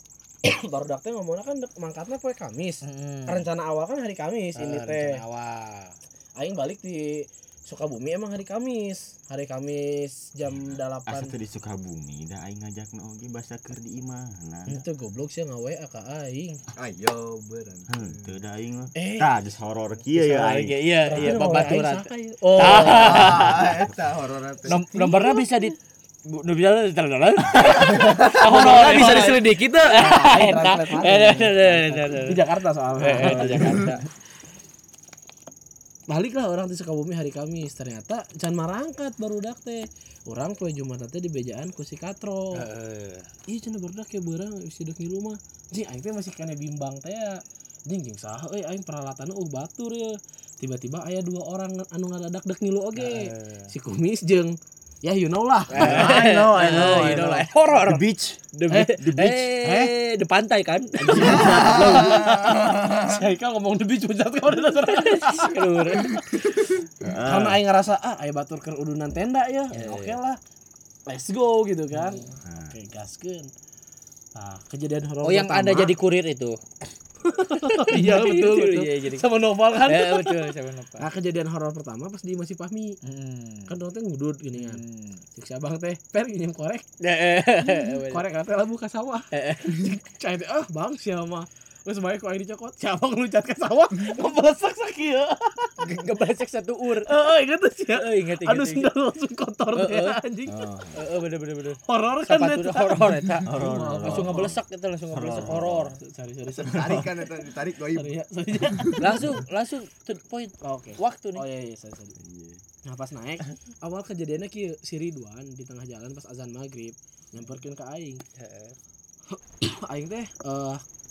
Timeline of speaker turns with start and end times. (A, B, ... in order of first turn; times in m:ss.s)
0:00.4-0:05.2 A
0:02.8-0:03.4 B
0:04.6-0:05.9 B
0:06.4-0:11.3 A
0:10.5-0:14.8 C
0:14.7-0:16.6 A
0:16.8-0:18.3 D
0:17.9-0:21.4 C
0:18.9-0:19.3 A
0:20.2-0:23.7 B
0:21.0-0:23.6 A
0:22.6-0:24.8 D
0:24.7-0:32.4 B
0:24.7-0:25.4 A
0:27.9-0:34.0 A
0:28.4-0:29.4 D
0:33.0-0:34.0 B
0:36.1-0:42.6 A
0:42.5-0:43.3 B
0:43.5-0:57.3 A
0:53.0-0:53.7 B
0:55.7-1:02.3 B
0:55.7-0:58.4 C
0:58.7-0:59.9 A
0:59.0-0:59.4 C
1:01.0-1:10.4 A
1:01.2-1:01.9 C
1:01.4-1:03.0 D
1:04.9-1:06.1 B
1:07.0-1:07.6 C
1:09.7-1:10.2 B
1:11.1-1:13.5 A
1:12.0-1:12.3 B
1:12.4-1:12.8 C
1:14.3-1:15.9 A
1:15.2-1:16.6 B
1:17.2-1:23.0 A
1:17.4-1:19.2 B
1:19.8-1:21.0 B
1:23.0-1:23.7 B
1:23.7-1:24.8 A
1:24.5-1:25.2 B
1:25.3-1:26.8 A
1:27.0-1:28.2 B
1:27.6-1:35.7 A
1:29.3-1:29.9 B
1:35.8-1:37.1 B
1:37.0-1:40.6 A
1:37.9-1:38.9 B
1:39.7-1:40.2 B
1:40.4-1:41.0 C
1:40.9-1:46.0 B
1:41.9-1:44.5 A
1:43.4-1:44.6 C
1:45.1-1:45.9 C
1:46.0-1:47.3 A
1:46.6-1:48.1 D
1:47.9-1:49.3 A
1:49.0-1:51.4 B
1:50.6-1:52.2 A
1:52.2-1:52.6 C
1:52.8-1:58.2 A
1:58.4-1:58.8 B
1:59.3-2:00.8 A